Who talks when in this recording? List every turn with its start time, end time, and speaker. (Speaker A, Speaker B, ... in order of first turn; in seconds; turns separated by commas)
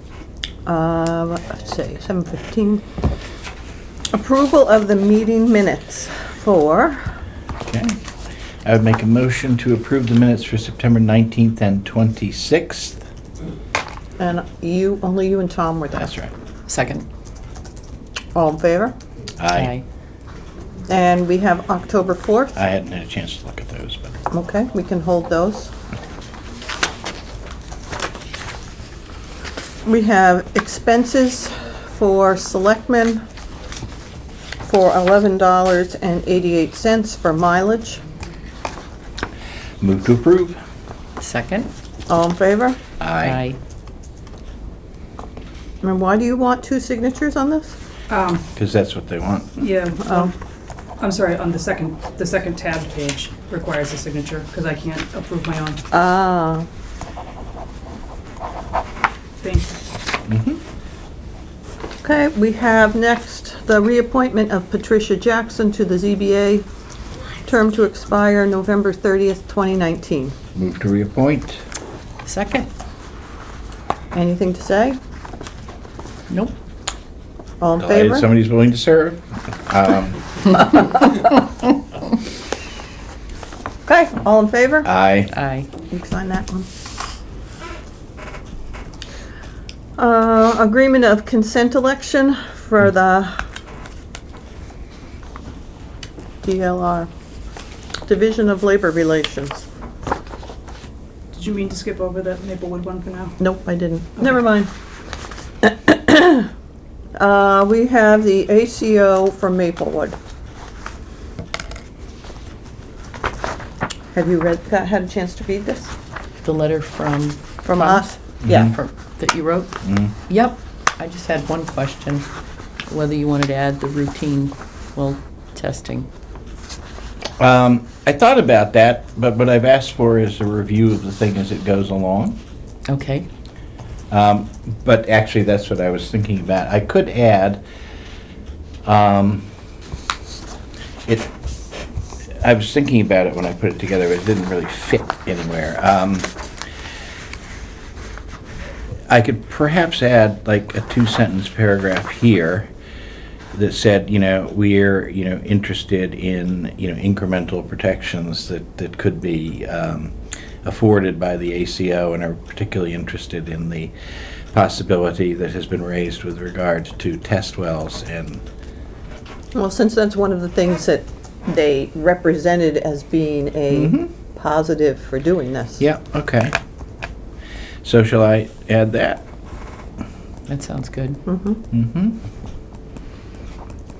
Speaker A: 0.7-2.8, Speaker A: 4.1-7.2, Speaker B: 7.7-8.0, Speaker B: 8.7-13.0, Speaker A: 14.2-16.1, Speaker B: 15.9-16.3, Speaker C: 16.7-17.1, Speaker A: 18.4-19.0, Speaker B: 19.4-19.7, Speaker C: 19.5-19.9, Speaker A: 20.9-22.5, Speaker B: 22.6-24.2, Speaker A: 24.3-25.7, Speaker A: 29.9-33.2, Speaker A: 34.6-38.0, Speaker B: 39.8-40.6, Speaker C: 41.2-41.7, Speaker A: 42.1-42.8, Speaker B: 43.0-43.4, Speaker C: 43.2-43.6, Speaker A: 45.8-47.8, Speaker D: 48.1-48.5, Speaker B: 48.6-49.7, Speaker D: 49.6-50.3, Speaker A: 50.0-50.3, Speaker D: 51.0-55.8, Speaker A: 55.9-56.7, Speaker D: 59.4-59.8, Speaker B: 60.3-60.6, Speaker A: 62.0-66.7, Speaker A: 67.5-70.4, Speaker B: 70.5-71.6, Speaker C: 72.2-72.7, Speaker A: 74.1-75.0, Speaker C: 76.3-76.5, Speaker A: 77.6-78.3, Speaker B: 77.8-80.7, Speaker A: 83.9-84.9, Speaker B: 84.8-85.3, Speaker C: 85.3-85.7, Speaker A: 85.9-86.7, Speaker A: 90.0-93.4, Speaker A: 96.4-97.1, Speaker A: 98.1-99.7, Speaker D: 101.3-103.4, Speaker A: 103.4-104.7, Speaker A: 105.6-106.5, Speaker A: 107.2-110.2, Speaker A: 114.1-115.9, Speaker C: 116.4-119.8, Speaker A: 117.6-118.7, Speaker B: 118.4-118.7, Speaker B: 119.8-120.1, Speaker C: 120.3-122.3, Speaker C: 122.9-126.1, Speaker B: 127.4-132.4, Speaker C: 132.9-133.3, Speaker B: 134.1-137.6, Speaker B: 138.8-139.5, Speaker B: 141.1-141.3, Speaker B: 142.4-146.3, Speaker B: 149.1-152.7, Speaker B: 153.5-163.9, Speaker B: 164.5-168.4, Speaker A: 169.5-175.8, Speaker B: 173.7-174.1, Speaker B: 175.8-176.6, Speaker B: 177.8-179.2, Speaker C: 180.5-181.2, Speaker A: 181.3-181.6, Speaker B: 181.7-182.2